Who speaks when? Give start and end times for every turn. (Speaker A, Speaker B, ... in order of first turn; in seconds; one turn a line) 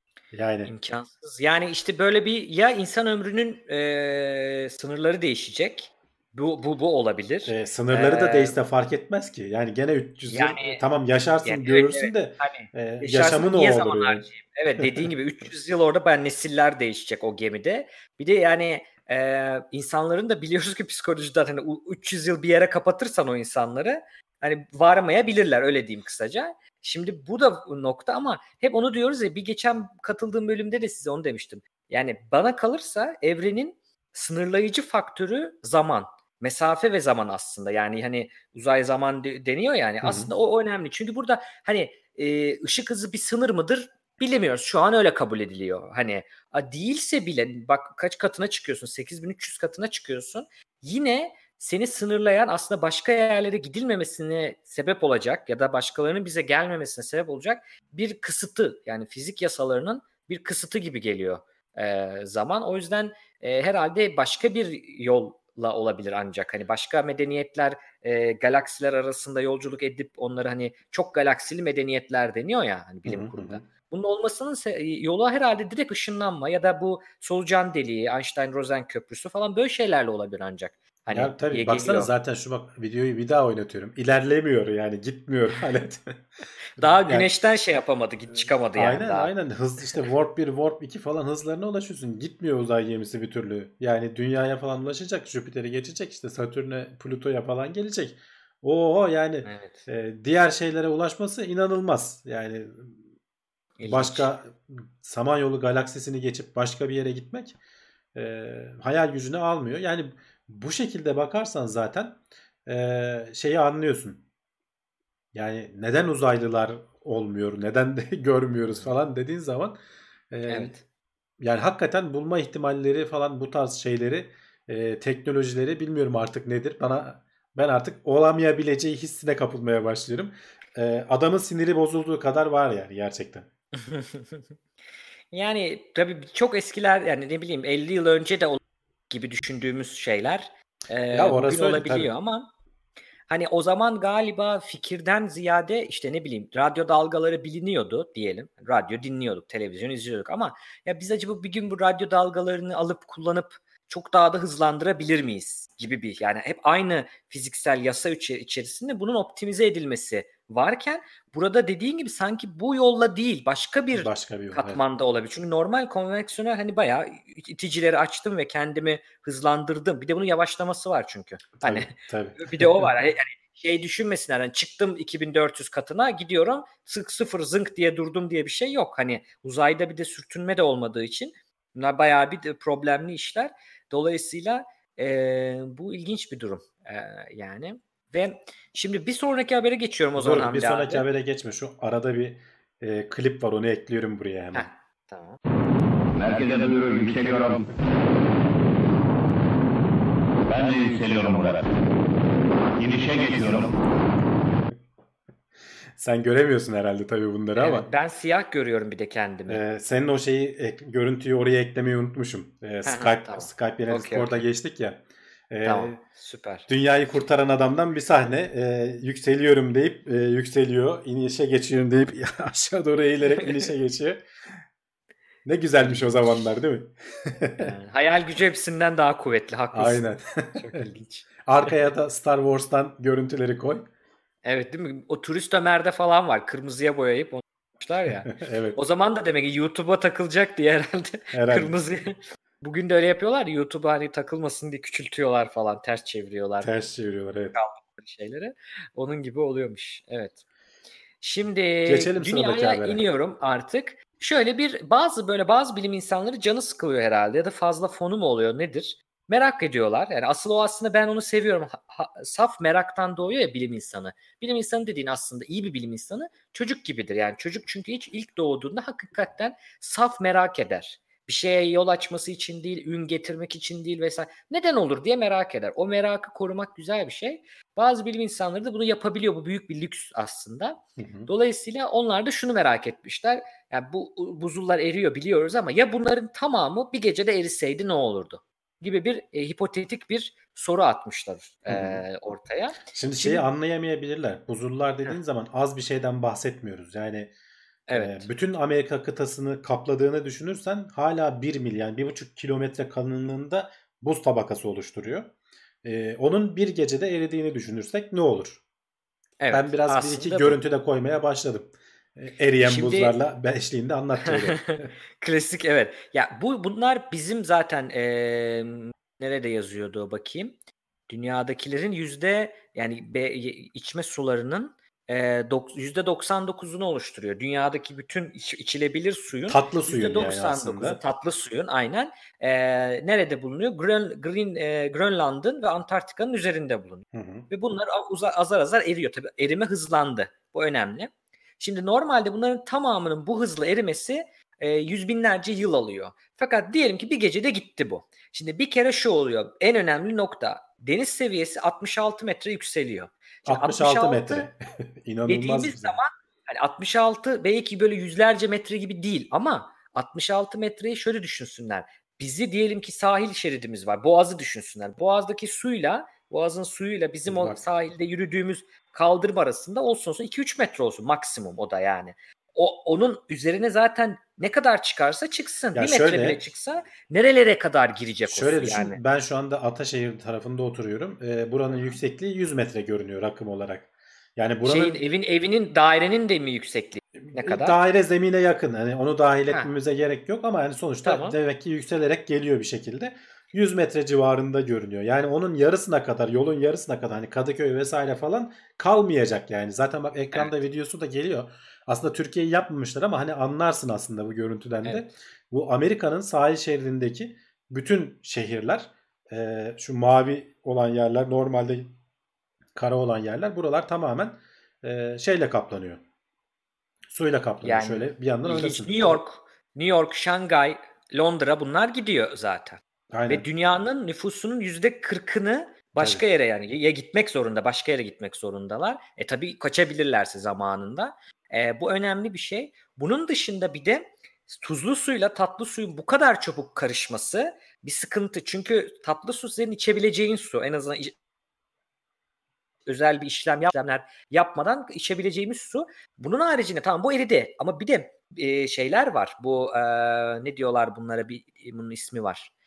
Speaker A: 0.3-0.7
Speaker B: 0.7-8.6
Speaker A: 7.5-14.3
Speaker B: 10.3-10.8
Speaker B: 11.4-82.1
Speaker A: 14.8-15.1
Speaker A: 40.0-40.3
Speaker A: 73.1-73.6
Speaker A: 81.1-86.2
Speaker B: 86.8-89.3
Speaker A: 86.8-87.3
Speaker A: 88.7-103.0
Speaker B: 99.5-99.8
Speaker B: 103.8-104.3
Speaker A: 103.8-107.6
Speaker A: 108.2-114.2
Speaker A: 115.3-119.8
Speaker A: 120.3-120.8
Speaker B: 120.5-120.8
Speaker A: 121.4-133.5
Speaker B: 133.8-134.4
Speaker B: 135.3-142.5
Speaker A: 141.1-142.1
Speaker B: 143.3-191.1
Speaker A: 163.9-164.8
Speaker A: 171.6-172.9
Speaker A: 190.2-194.7
Speaker B: 194.5-195.4
Speaker C: 196.2-197.7
Speaker C: 200.5-201.7
Speaker C: 202.8-203.7
Speaker A: 206.0-207.9
Speaker B: 207.6-209.6
Speaker A: 209.5-216.0
Speaker B: 212.8-214.4
Speaker B: 215.6-216.7
Speaker A: 216.7-224.3
Speaker A: 225.4-227.7
Speaker B: 225.8-226.1
Speaker B: 227.6-231.7
Speaker A: 229.7-230.8
Speaker A: 231.4-233.9
Speaker B: 234.4-246.7
Speaker A: 238.3-238.8
Speaker A: 241.3-241.8
Speaker A: 246.6-247.6
Speaker B: 247.6-250.4
Speaker B: 251.2-293.5
Speaker A: 251.9-253.0
Speaker A: 281.0-281.3
Speaker A: 291.7-292.0
Speaker A: 292.9-297.3
Speaker B: 297.9-298.3
Speaker A: 297.9-305.3
Speaker A: 305.8-308.6
Speaker B: 309.4-310.6
Speaker A: 309.5-314.9
Speaker B: 312.6-313.1
Speaker B: 314.2-320.6
Speaker B: 321.1-354.5
Speaker A: 329.5-331.0
Speaker A: 337.1-337.5
Speaker A: 353.5-356.0
Speaker B: 355.3-379.0
Speaker A: 367.3-367.6
Speaker A: 375.7-376.4
Speaker A: 378.3-385.0
Speaker B: 384.6-387.8
Speaker A: 387.2-411.9
Speaker B: 391.1-391.4
Speaker B: 404.9-405.1
Speaker A: 412.8-416.0
Speaker A: 417.1-419.2
Speaker B: 417.6-441.1
Speaker A: 423.1-423.4
Speaker B: 442.9-452.5